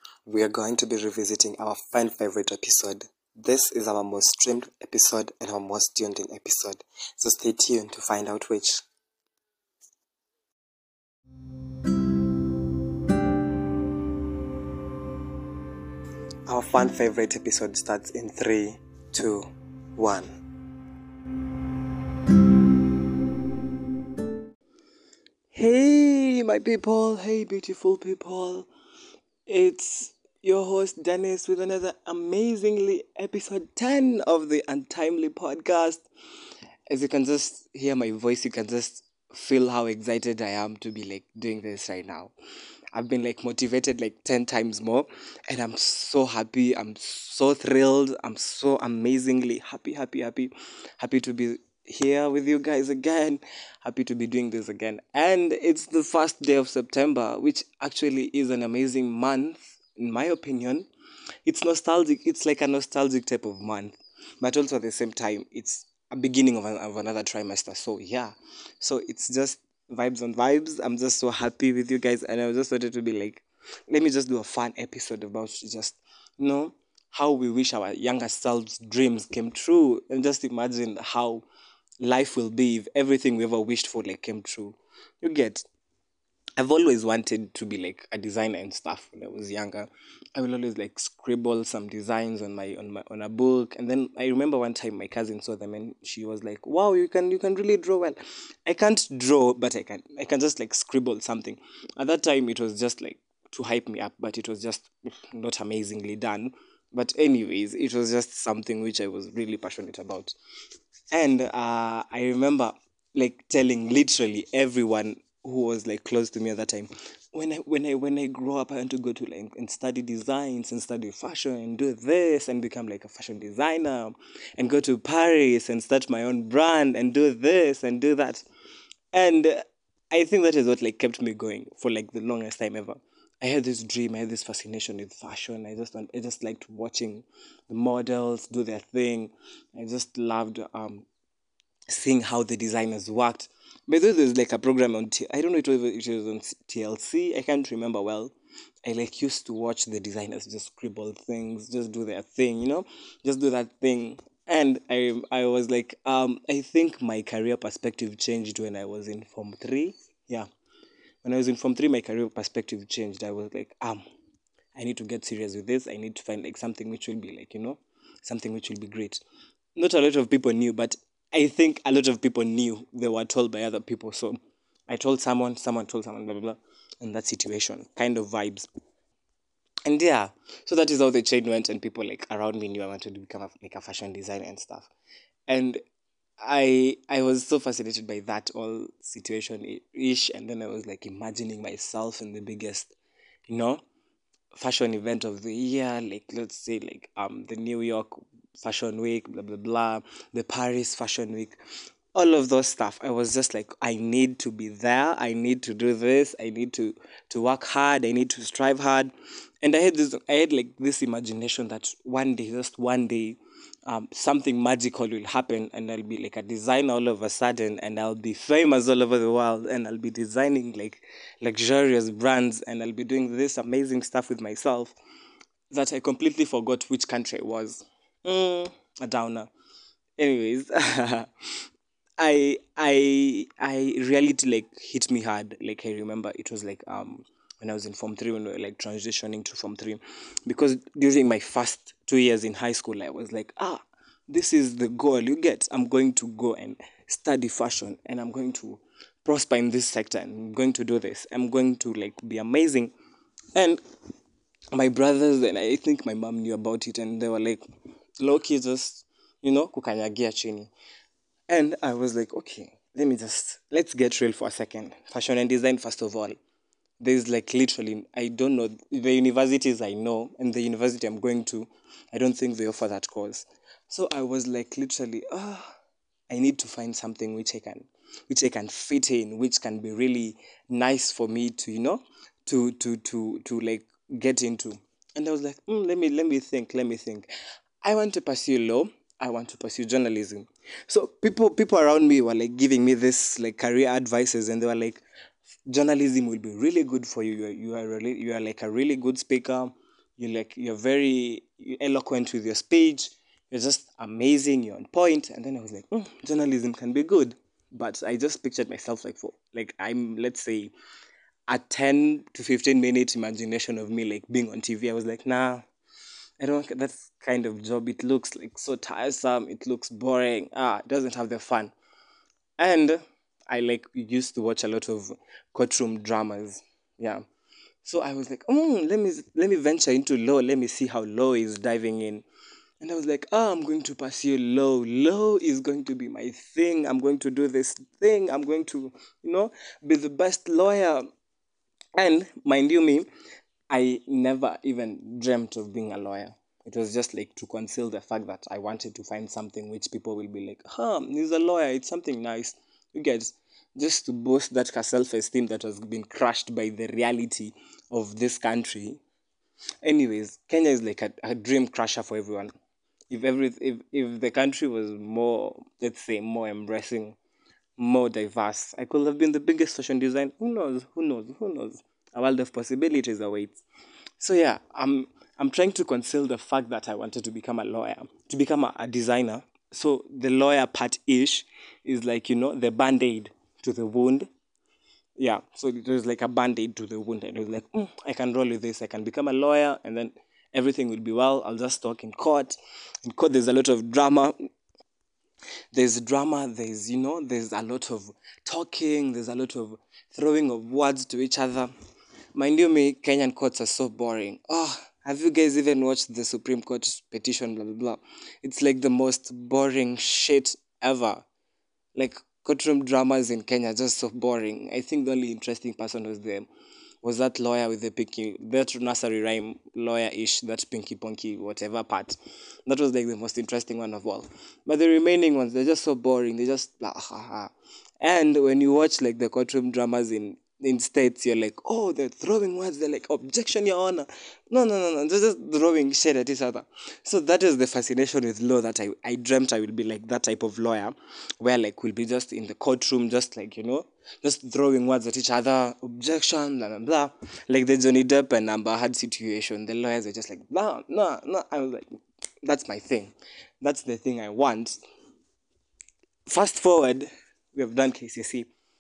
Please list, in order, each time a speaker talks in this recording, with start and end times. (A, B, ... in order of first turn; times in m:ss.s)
0:00.3-0:08.8 A
0:16.5-0:20.3 A
0:25.5-0:28.7 A
0:29.5-0:36.0 A
0:36.9-0:42.3 A
0:42.9-1:00.9 A
1:01.4-1:21.5 A
1:22.0-1:25.7 A
1:26.6-1:50.4 A
1:51.1-2:08.4 A
2:09.1-2:21.1 A
2:21.9-2:28.3 A
2:28.8-2:40.5 A
2:41.2-2:44.0 A
2:44.8-2:49.2 A
2:49.8-2:58.7 A
2:59.9-3:04.9 A
3:05.5-3:05.8 A
3:06.4-3:12.9 A
3:13.5-3:13.8 A
3:14.5-3:21.6 A
3:22.2-3:45.0 A
3:45.7-3:49.5 A
3:50.2-3:51.3 A
3:52.2-4:12.9 A
4:13.5-4:13.8 A
4:14.7-4:17.6 A
4:18.2-4:20.7 A
4:21.5-4:26.4 A
4:27.0-4:35.7 A
4:36.3-4:47.3 A
4:47.8-4:55.0 A
4:55.7-5:10.7 A
5:11.5-5:15.7 A
5:16.4-5:21.7 A
5:22.6-5:27.2 A
5:27.8-5:32.2 A
5:32.8-5:41.1 A
5:42.0-5:43.1 A
5:43.7-5:59.0 A
5:59.8-6:02.5 A
6:03.1-6:07.2 A
6:07.8-6:13.6 A
6:14.2-6:24.3 A
6:25.2-6:34.3 A
6:35.7-6:41.7 A
6:42.4-6:51.3 A
6:52.0-6:56.5 A
6:57.0-7:31.9 A
7:32.4-7:34.8 A
7:36.3-7:38.5 A